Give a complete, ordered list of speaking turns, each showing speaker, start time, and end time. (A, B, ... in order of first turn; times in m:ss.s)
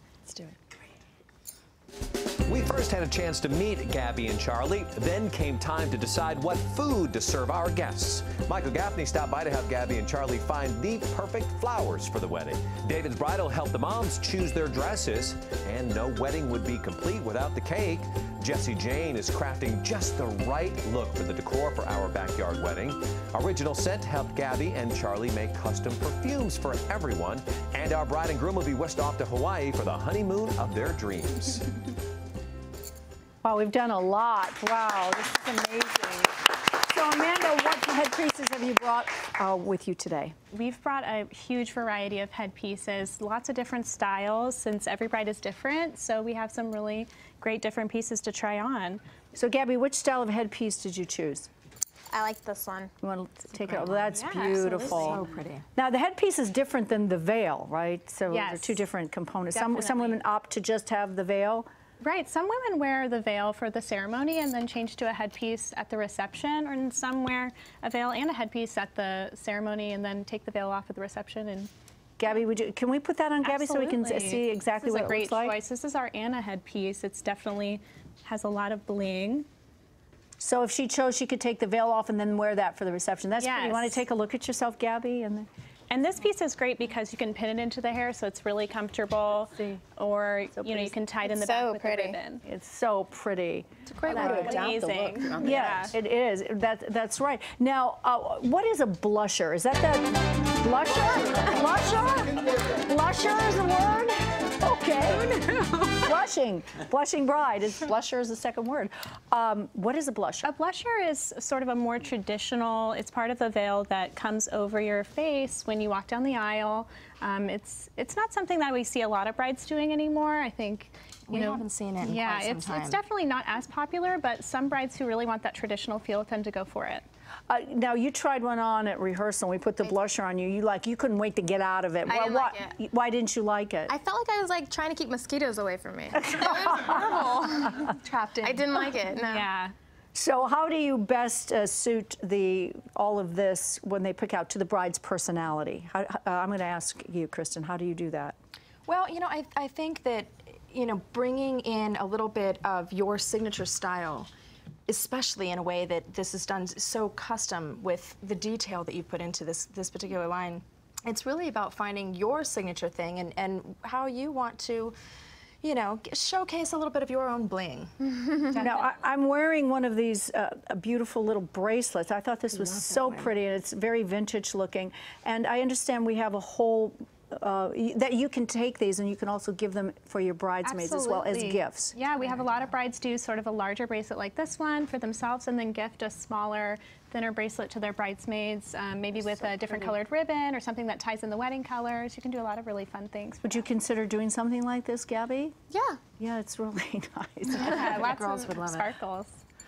0:00.3-0:00.5 A
0:02.5-0:31.6 B
0:33.4-0:40.4 C
0:40.5-0:49.0 D
0:49.3-0:51.5 C
0:52.1-0:52.9 E
0:53.0-0:55.2 C
0:54.1-0:55.2 D
0:54.7-0:55.1 E
0:54.9-0:55.6 A
0:55.8-1:01.7 C
0:58.3-0:58.8 D
0:59.5-1:00.2 D
1:02.0-1:11.7 D
1:12.2-1:15.6 C
1:13.4-1:19.5 D
1:20.4-1:25.5 C
1:23.4-1:24.0 D
1:25.9-1:32.4 D
1:30.6-1:31.0 C
1:31.2-1:32.2 E
1:32.4-1:34.7 C
1:34.0-1:35.4 A
1:34.0-1:35.9 E
1:34.1-1:35.9 D
1:35.4-1:50.5 C
1:50.4-2:07.0 D
2:01.3-2:03.0 A
2:07.5-2:14.0 C
2:12.1-2:12.7 E
2:13.9-2:17.9 E
2:16.1-2:17.4 C
2:16.8-2:18.8 A
2:18.4-2:19.5 E
2:19.1-2:19.7 D
2:20.1-2:28.4 C
2:28.9-2:34.3 A
2:34.9-2:45.0 A
2:45.6-2:48.9 A
2:48.5-3:01.9 C
2:52.7-2:53.2 A
3:00.6-3:13.7 D
3:13.4-3:15.6 C
3:15.7-3:16.0 E
3:16.2-3:18.1 C
3:17.5-3:19.4 D
3:17.7-3:18.9 A